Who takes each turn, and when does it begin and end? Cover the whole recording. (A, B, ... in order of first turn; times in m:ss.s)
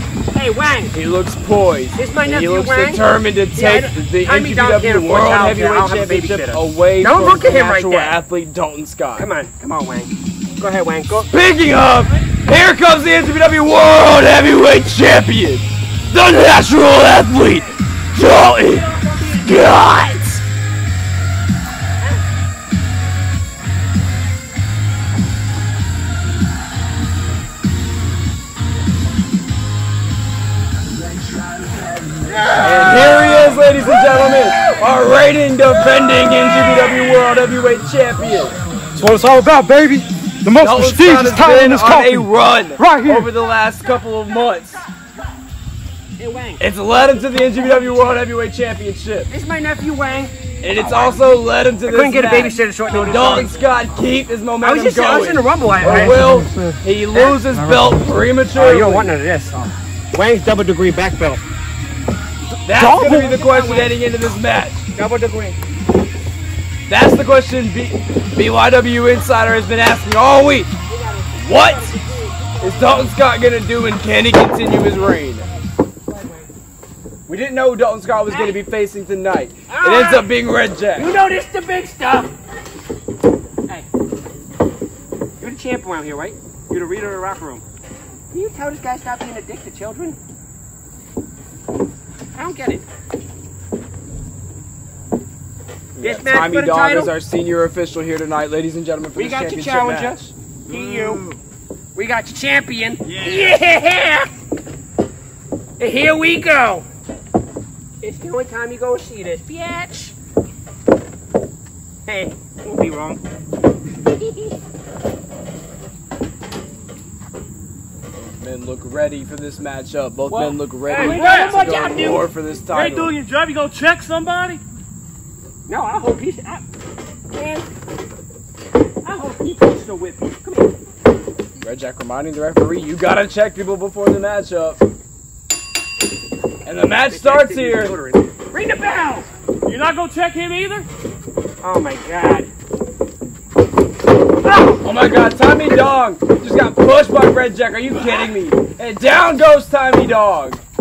0:00.3-0:00.9 A
0:00.9-0:09.3 B
0:02.0-0:08.2 A
0:09.2-0:11.3 A
0:11.3-0:20.4 B
0:18.6-0:19.6 A
0:32.6-0:38.6 B
0:39.0-0:43.3 C
0:40.6-0:44.9 B
0:46.2-0:46.6 A
0:46.6-0:49.3 B
0:47.2-0:48.2 A
0:49.3-0:51.2 A
0:50.6-0:59.1 B
0:51.8-0:53.6 A
0:54.6-0:57.9 A
0:55.9-0:56.7 C
0:58.5-1:01.4 A
1:02.6-1:04.9 B
1:02.7-1:03.9 A
1:05.0-1:05.6 A
1:06.9-1:10.7 B
1:10.9-1:13.1 A
1:11.3-1:12.0 B
1:12.6-1:15.5 B
1:17.3-1:21.2 B
1:18.3-1:18.6 A
1:19.7-1:20.3 A
1:21.0-1:22.3 A
1:25.4-1:27.6 A
1:28.3-1:30.2 A
1:32.3-1:32.9 A
1:35.9-1:40.3 B
1:36.0-1:37.1 A
1:39.2-1:41.2 A
1:40.7-1:41.4 C
1:42.0-1:44.3 A
1:43.0-1:43.6 C
1:45.8-1:46.9 A
1:48.0-1:50.2 A
1:52.1-1:53.2 A
1:54.0-1:54.6 A
1:58.1-2:03.1 B
2:00.3-2:02.3 A
2:00.9-2:01.6 C
2:02.7-2:04.6 C
2:05.7-2:06.7 A
2:07.3-2:07.7 A
2:09.0-2:10.7 A
2:11.6-2:14.8 B
2:16.6-2:17.9 B
2:17.1-2:19.3 A
2:19.6-2:20.9 C
2:21.6-2:22.5 A
2:24.4-2:24.8 A
2:24.8-2:30.6 B